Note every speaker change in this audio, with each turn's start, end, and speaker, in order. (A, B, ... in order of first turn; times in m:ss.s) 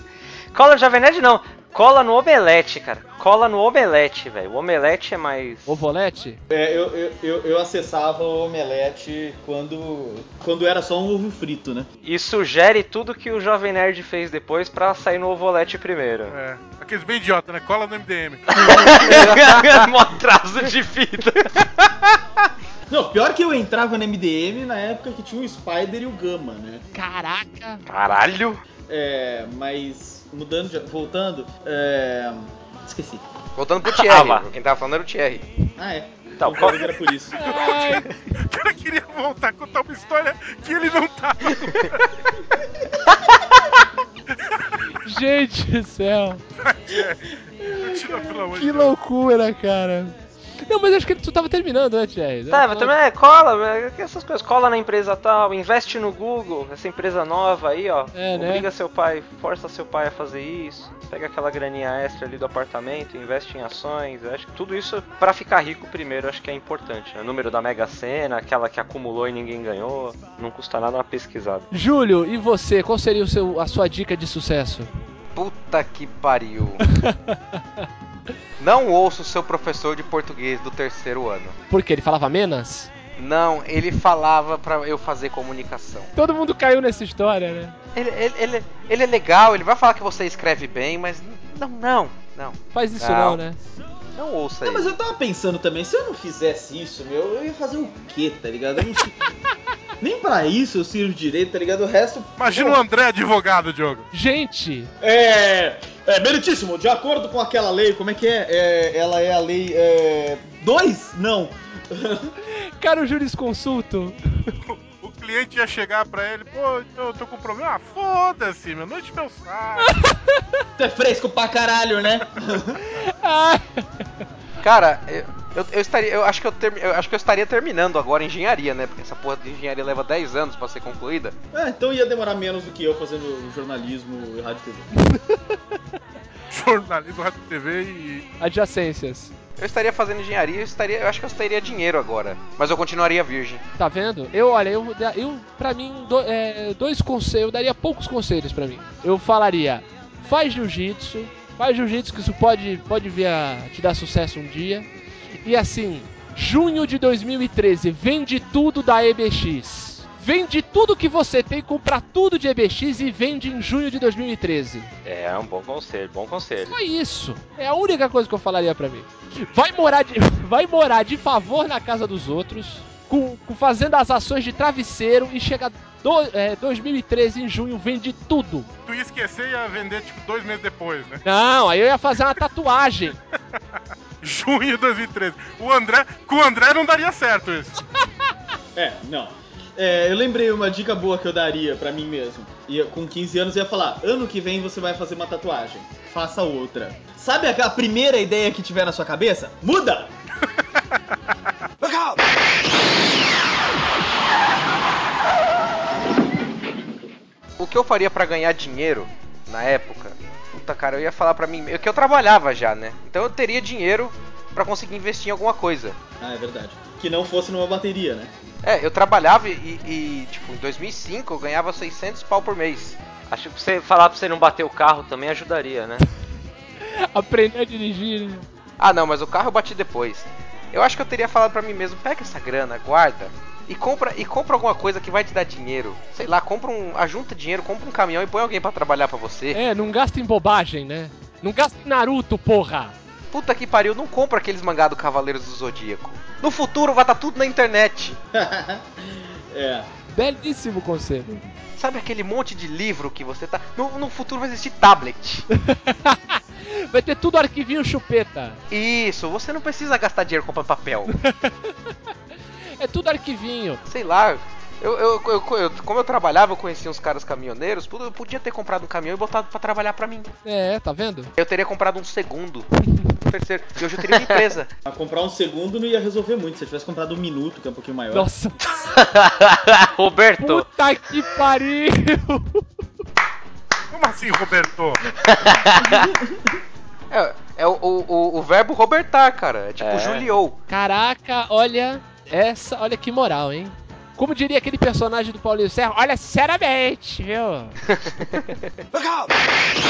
0:00.5-0:05.8 A
0:05.7-0:06.4 B
0:06.5-0:11.9 C
0:12.0-0:16.4 A
0:16.3-0:19.2 D
0:18.5-0:21.7 A
0:18.9-0:19.4 C
0:22.9-0:26.8 C
0:26.9-0:27.8 B
0:27.9-0:28.6 A
0:28.9-0:33.2 C
0:33.6-0:35.5 E
0:33.9-0:34.5 A
0:35.8-0:37.4 C
0:36.4-0:37.0 A
0:37.4-0:38.1 B
0:37.4-0:42.1 D
0:44.4-0:44.8 D
0:45.0-0:46.4 B
0:46.6-0:49.0 D
0:47.9-0:48.2 C
0:48.5-0:52.9 B
0:52.5-1:11.7 A
0:58.1-0:58.7 B
1:11.7-1:14.9 B
1:15.4-1:16.8 E
1:17.0-1:17.8 B
1:18.6-1:21.6 E
1:21.7-1:22.9 B
1:23.2-1:26.1 E
1:26.2-1:27.8 B
1:28.0-1:33.4 E
1:32.7-1:33.6 B
1:34.2-1:34.9 E
1:34.6-1:39.2 C
1:40.0-1:42.8 C
1:42.4-1:44.1 D
1:44.1-1:44.9 B
1:45.0-1:52.3 C
1:52.8-1:54.5 B
1:54.6-2:00.0 D
1:59.8-2:00.4 B
2:00.8-2:02.8 C
2:02.9-2:03.9 B
2:04.6-2:11.4 E
2:11.5-2:14.9 C
2:15.1-2:15.6 B
2:16.5-2:18.2 D
2:18.4-2:19.3 B
2:19.6-2:23.6 E
2:23.8-2:34.9 B
2:35.4-2:44.9 B
2:45.0-2:46.8 A
2:46.6-2:58.7 B
2:58.9-3:01.2 D
3:01.2-3:03.2 B
3:04.2-3:07.8 D
3:08.8-3:20.1 C
3:27.6-3:36.0 E
3:36.2-3:38.3 C
3:38.6-3:43.0 E
3:43.3-3:46.0 A
3:46.8-3:48.5 B
3:48.8-3:59.6 E
3:59.5-4:03.0 B
4:03.3-4:08.2 E
4:08.3-4:09.9 C
4:10.1-4:11.4 B
4:11.8-4:15.5 E
4:15.6-4:18.6 B
4:18.7-4:21.1 E
4:21.2-4:21.7 B
4:22.8-4:23.8 B
4:23.9-4:30.3 E
4:30.4-4:31.3 B
4:31.4-4:32.7 E
4:33.2-4:34.7 E
4:34.9-4:38.3 C
4:38.1-4:38.6 B
4:38.8-4:40.7 A
4:40.4-4:42.6 B
4:43.9-4:45.0 D
4:45.2-4:46.0 A
4:45.8-4:46.5 C
4:47.1-4:50.6 E
4:49.8-4:50.3 A
4:50.7-4:57.8 B